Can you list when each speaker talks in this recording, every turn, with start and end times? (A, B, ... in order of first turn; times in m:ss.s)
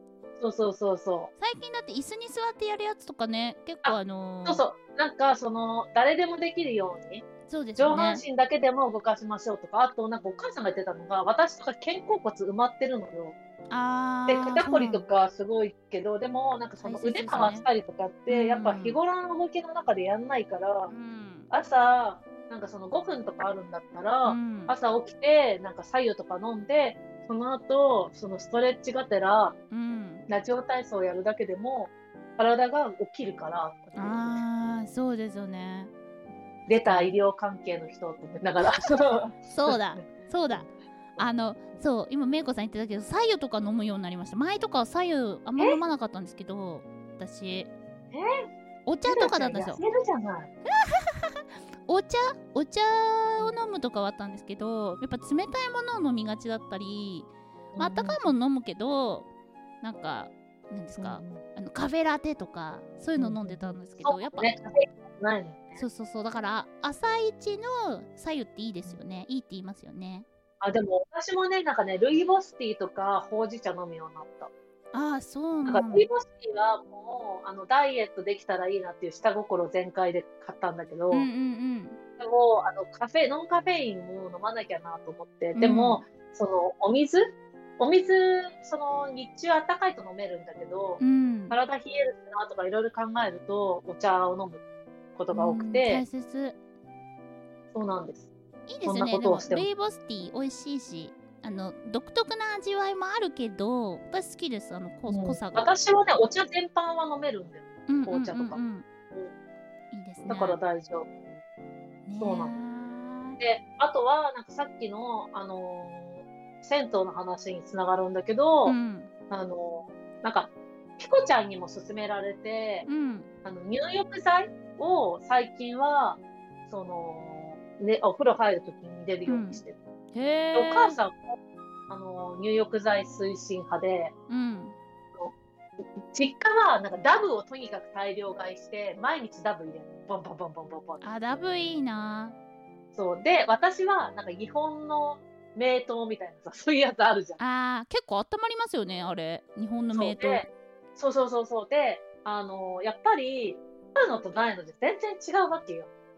0:00.4-0:01.3 A
0:01.4-0:04.6 B
0:03.8-0:13.4 A
0:07.5-0:08.2 B
0:13.7-0:15.0 B
0:14.3-0:20.9 A
0:16.8-0:17.7 B
0:18.3-0:19.0 B
0:20.9-0:21.5 B
0:21.5-0:29.6 A
0:24.2-0:24.7 B
0:29.7-0:30.2 B
0:30.3-0:34.4 A
0:34.0-0:35.9 B
0:36.7-0:41.3 A
0:36.7-0:37.2 B
0:39.5-0:40.7 B
0:41.2-0:47.7 B
0:48.9-0:49.8 B
0:49.1-0:50.5 A
0:50.7-0:59.3 B
0:57.7-0:58.3 A
0:59.8-1:04.6 B
1:01.0-1:01.4 A
1:03.2-1:05.8 A
1:05.8-1:10.3 B
1:10.6-1:14.5 A
1:14.9-1:16.1 B
1:15.6-1:21.3 A
1:21.1-1:22.0 B
1:22.2-1:34.6 A
1:25.6-1:26.0 B
1:31.0-1:31.6 B
1:35.2-1:36.0 A
1:35.3-1:36.6 B
1:37.7-1:38.3 A
1:38.7-1:45.7 B
1:38.8-1:39.7 A
1:45.1-1:48.6 A
1:47.9-1:48.9 B
1:49.9-1:50.6 B
1:50.3-1:51.1 A
1:52.0-1:53.4 B
1:52.2-1:52.6 A
1:53.4-1:58.8 A
1:58.7-1:59.1 B
1:59.3-2:02.9 A
2:02.9-2:03.3 B
2:03.4-2:09.8 A
2:09.3-2:09.6 B
2:10.1-2:11.0 B
2:10.5-2:11.4 A
2:11.9-2:14.1 A
2:14.3-2:14.8 B
2:16.1-2:21.3 A
2:21.0-2:22.4 B
2:22.9-2:27.4 A
2:27.4-2:30.4 B
2:29.9-2:35.9 A